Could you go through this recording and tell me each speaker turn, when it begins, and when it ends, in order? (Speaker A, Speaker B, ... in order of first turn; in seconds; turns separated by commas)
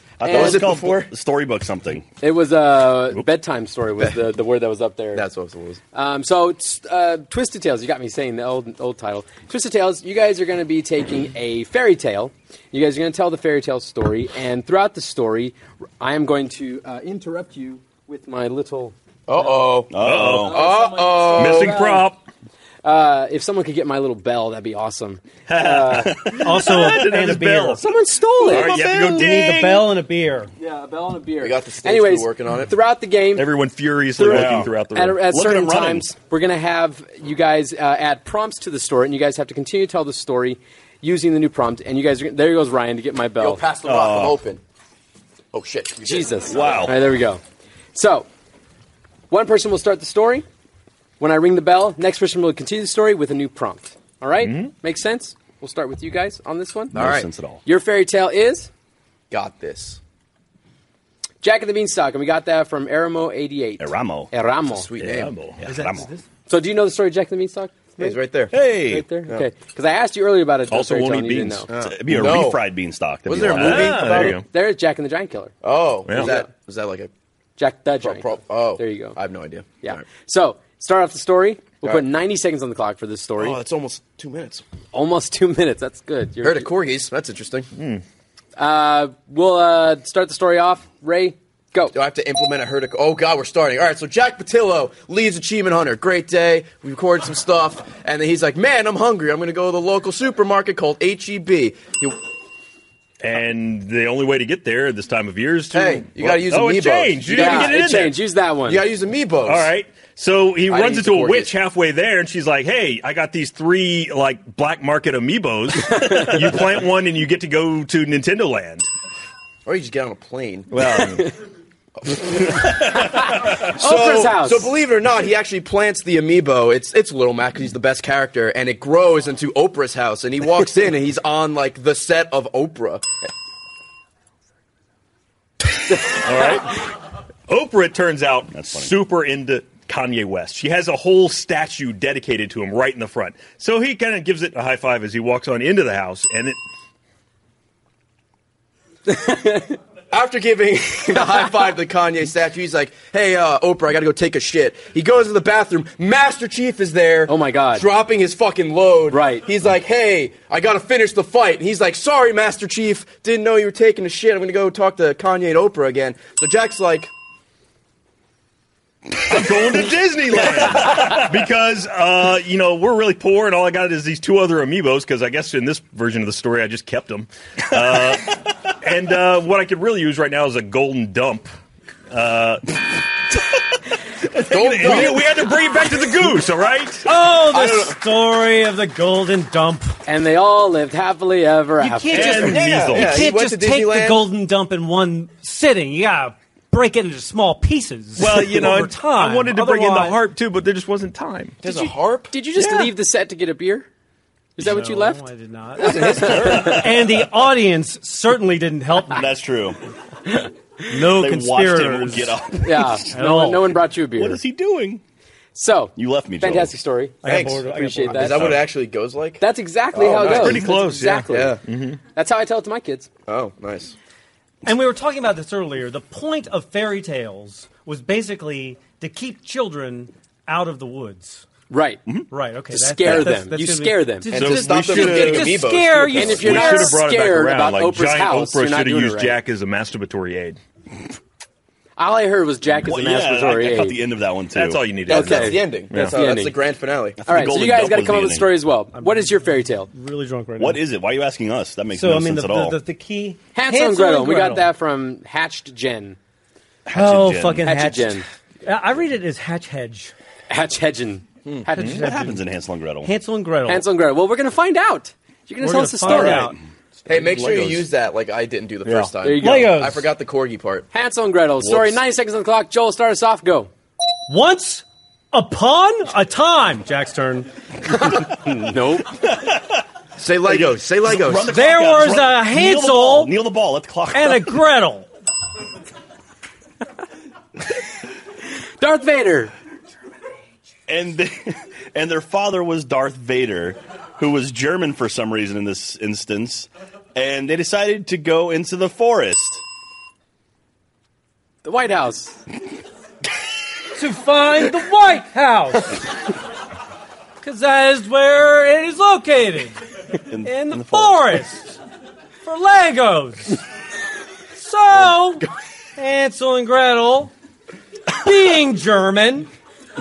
Speaker A: 0.2-2.1, Speaker B: 0.2-0.7, Speaker C: 0.2-1.1, Speaker B: 2.2-5.2, Speaker C: 5.2-5.8, Speaker B: 5.9-22.1, Speaker C: 19.3-21.8, Speaker A: 19.9-20.6, Speaker D: 20.0-20.6, Speaker D: 21.4-22.2, Speaker B: 22.8-26.2, Speaker D: 25.5-27.8, Speaker A: 26.0-26.6, Speaker E: 26.4-27.8, Speaker B: 27.8-29.1, Speaker D: 28.4-29.9, Speaker C: 28.4-29.3, Speaker E: 28.9-30.5, Speaker B: 30.6-33.5, Speaker C: 31.4-32.7, Speaker D: 33.4-35.2, Speaker A: 34.2-34.7, Speaker B: 34.2-43.6, Speaker A: 35.2-36.1, Speaker C: 43.4-44.6, Speaker A: 43.8-44.4, Speaker C: 45.5-46.9, Speaker B: 46.0-47.4, Speaker A: 46.5-47.0, Speaker B: 48.0-48.3, Speaker B: 49.3-50.5, Speaker B: 51.2-57.0, Speaker D: 54.4-54.7, Speaker A: 56.9-57.6, Speaker C: 56.9-57.3, Speaker B: 57.6-58.7, Speaker C: 59.3-60.0, Speaker B: 61.4-64.9, Speaker A: 63.8-64.3, Speaker C: 64.7-65.3, Speaker D: 65.0-65.6, Speaker E: 65.6-66.3, Speaker A: 65.7-66.1, Speaker B: 66.5-71.7, Speaker C: 68.0-68.5, Speaker A: 68.5-69.1, Speaker D: 70.7-71.7, Speaker C: 71.7-72.6, Speaker A: 71.7-73.9, Speaker C: 73.2-74.4, Speaker D: 73.5-74.5, Speaker B: 73.5-75.5, Speaker C: 75.6-77.1, Speaker D: 76.1-76.3, Speaker B: 76.2-76.5, Speaker B: 77.6-79.2, Speaker C: 78.0-80.0, Speaker B: 79.8-83.6, Speaker C: 83.4-84.6, Speaker B: 84.9-86.7, Speaker C: 86.4-87.7, Speaker D: 87.8-88.0, Speaker B: 88.6-92.0, Speaker C: 91.9-102.2, Speaker D: 103.2-108.2, Speaker C: 105.7-107.9, Speaker B: 107.3-108.8, Speaker C: 108.7-109.7, Speaker D: 109.5-118.9, Speaker C: 110.7-111.5, Speaker B: 115.8-116.6, Speaker C: 119.7-120.7, Speaker D: 120.7-121.3, Speaker B: 120.8-121.4, Speaker C: 122.0-133.1, Speaker A: 122.6-123.0, Speaker B: 122.8-124.7, Speaker D: 136.1-136.8, Speaker D: 137.5-146.6, Speaker A: 138.5-138.9, Speaker B: 149.1-149.8, Speaker C: 150.1-167.1, Speaker B: 157.3-157.9, Speaker B: 159.1-159.5, Speaker D: 169.2-181.5, Speaker D: 182.1-182.9, Speaker D: 184.3-187.1, Speaker C: 184.5-185.3, Speaker E: 187.1-190.0, Speaker C: 187.3-188.0, Speaker B: 190.1-192.6, Speaker E: 191.8-200.2, Speaker D: 192.1-193.3, Speaker C: 192.2-194.3, Speaker D: 198.2-201.6, Speaker C: 201.6-202.3, Speaker B: 201.6-203.9, Speaker D: 202.6-202.9, Speaker B: 204.6-205.2, Speaker E: 204.6-209.3, Speaker C: 205.8-206.8, Speaker B: 205.8-206.8, Speaker A: 206.1-207.1, Speaker A: 209.1-209.8, Speaker E: 210.9-212.5, Speaker A: 211.1-213.2, Speaker B: 212.6-214.4, Speaker E: 213.0-213.8, Speaker A: 214.2-215.0, Speaker B: 215.6-218.6, Speaker A: 216.0-216.8, Speaker E: 217.2-218.6, Speaker C: 217.2-220.8, Speaker B: 219.4-221.6, Speaker D: 220.2-222.0, Speaker C: 221.3-221.6, Speaker B: 222.1-223.1, Speaker C: 223.3-223.9, Speaker E: 224.7-231.5, Speaker B: 231.7-232.0, Speaker E: 232.3-237.0, Speaker B: 232.7-234.3, Speaker C: 234.3-236.7, Speaker D: 234.3-240.6, Speaker B: 236.1-239.4, Speaker B: 242.0-244.0, Speaker A: 242.8-244.9, Speaker D: 244.5-246.2, Speaker B: 245.1-246.6, Speaker C: 245.1-247.2, Speaker A: 247.2-248.5, Speaker B: 247.3-249.9, Speaker E: 248.9-250.8, Speaker A: 250.6-252.8, Speaker E: 251.9-254.7, Speaker B: 253.6-256.2, Speaker A: 256.9-257.7, Speaker E: 256.9-260.1, Speaker B: 257.6-258.2, Speaker B: 260.5-262.0, Speaker E: 261.7-262.4, Speaker A: 262.0-263.1, Speaker E: 263.0-263.9, Speaker B: 263.7-266.5, Speaker E: 265.6-266.6, Speaker A: 266.1-266.6, Speaker C: 267.1-270.9, Speaker D: 267.1-267.8, Speaker A: 267.3-267.7, Speaker B: 269.2-269.8, Speaker E: 269.4-270.1, Speaker B: 270.9-273.7, Speaker A: 271.6-272.0, Speaker E: 274.3-277.5, Speaker B: 277.9-279.1, Speaker A: 279.2-279.8, Speaker C: 280.2-281.6, Speaker A: 280.5-284.5, Speaker E: 281.5-283.3, Speaker E: 284.1-285.1, Speaker B: 288.8-289.5, Speaker A: 290.9-299.6, Speaker B: 301.6-302.4, Speaker E: 303.9-306.0, Speaker E: 307.4-309.8, Speaker A: 310.3-311.2, Speaker E: 310.4-311.8, Speaker E: 312.4-313.6, Speaker E: 314.5-317.3, Speaker E: 318.1-319.5